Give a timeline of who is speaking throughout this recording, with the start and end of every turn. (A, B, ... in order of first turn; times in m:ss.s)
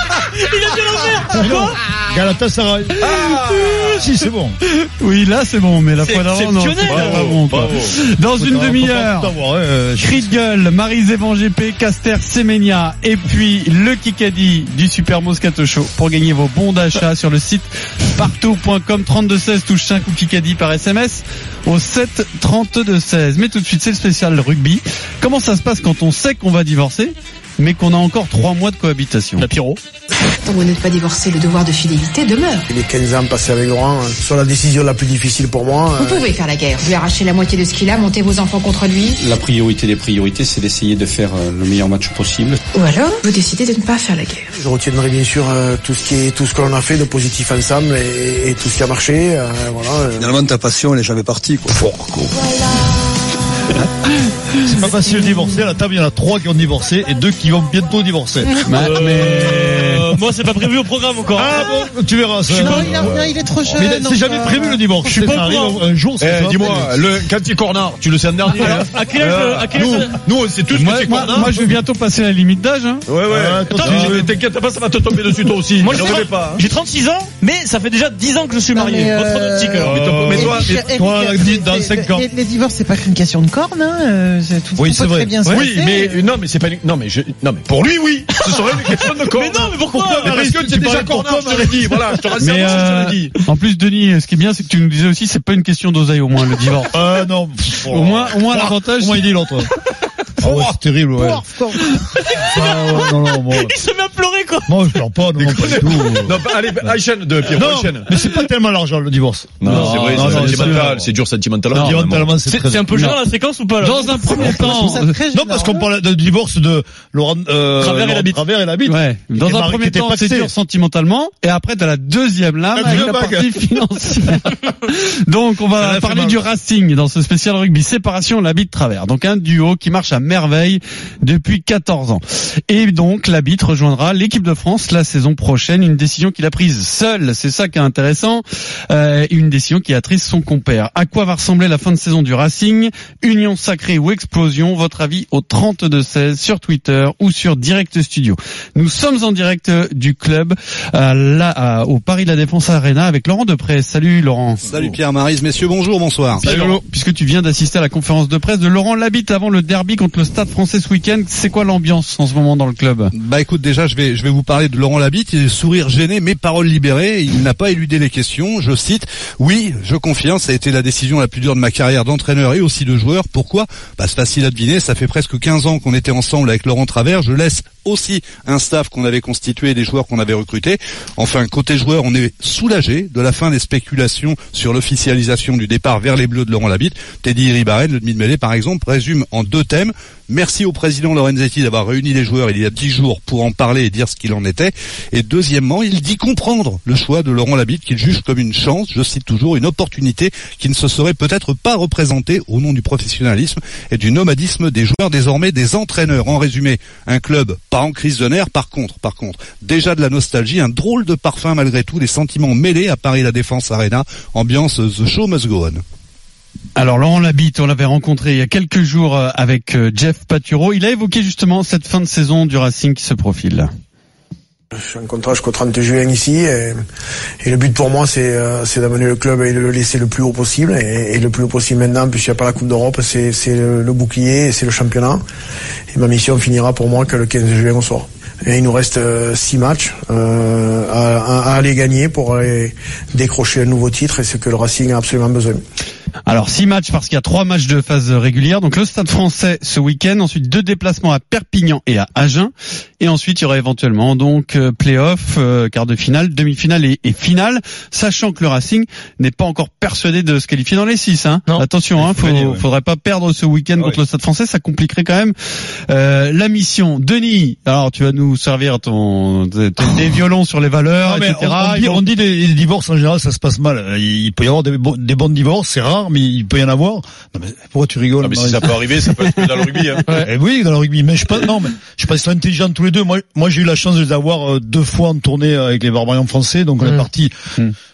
0:00.3-0:01.8 A
0:01.2-0:03.3 B
0:03.0-0:04.1 C
0:03.9-0:04.6 B
0:04.7-0:09.3 D
0:06.1-0:07.2 A
0:06.9-0:07.9 C
0:08.4-0:10.4 B
0:10.0-0:29.5 D
0:29.4-0:29.8 A
0:30.4-0:32.6 E
0:32.7-0:36.2 F
0:36.0-0:39.2 E
0:39.2-0:42.6 G
0:42.7-0:44.5 E
0:44.6-0:50.3 F
0:50.2-0:52.6 B
0:54.6-0:58.5 B
0:58.6-1:00.0 D
0:58.8-1:01.6 A
1:01.3-1:07.0 B
1:01.6-1:01.8 H
1:02.5-1:05.5 H
1:02.5-1:03.0 A
1:05.0-1:05.8 A
1:06.2-1:11.6 C
1:08.5-1:10.2 A
1:10.7-1:13.0 D
1:13.1-1:16.6 C
1:13.3-1:14.3 B
1:13.8-1:14.1 A
1:15.8-1:19.9 A
1:18.7-1:26.3 H
1:19.8-1:20.8 C
1:19.8-1:22.3 B
1:24.8-1:25.3 B
1:25.5-1:33.4 C
1:29.3-1:30.4 A
1:29.9-1:32.2 B
1:32.4-1:36.9 D
1:36.9-1:39.7 B
1:37.9-1:39.2 D
1:40.4-1:41.4 B
1:41.2-1:41.9 H
1:42.3-1:44.9 A
1:42.4-1:43.7 B
1:44.7-1:46.9 B
1:45.4-1:48.1 C
1:47.5-1:51.1 B
1:49.6-1:52.3 C
1:49.6-1:50.9 D
1:51.7-1:53.0 B
1:52.4-1:54.7 A
1:53.8-1:55.1 D
1:54.1-1:55.9 H
1:54.4-2:00.5 B
1:57.8-1:58.3 A
1:58.8-2:34.6 D
2:02.7-2:03.7 B
2:05.8-2:06.4 B
2:34.6-2:36.4 I
2:36.4-2:36.8 C
2:36.4-2:43.1 D
2:43.1-3:35.8 I
3:36.8-3:43.7 D
3:44.7-3:46.8 F
3:47.4-3:55.2 F
3:55.9-4:05.6 F
4:06.2-4:25.3 D
4:22.0-4:22.6 B
4:25.9-4:32.0 D
4:31.0-4:47.3 B
4:38.2-4:40.2 C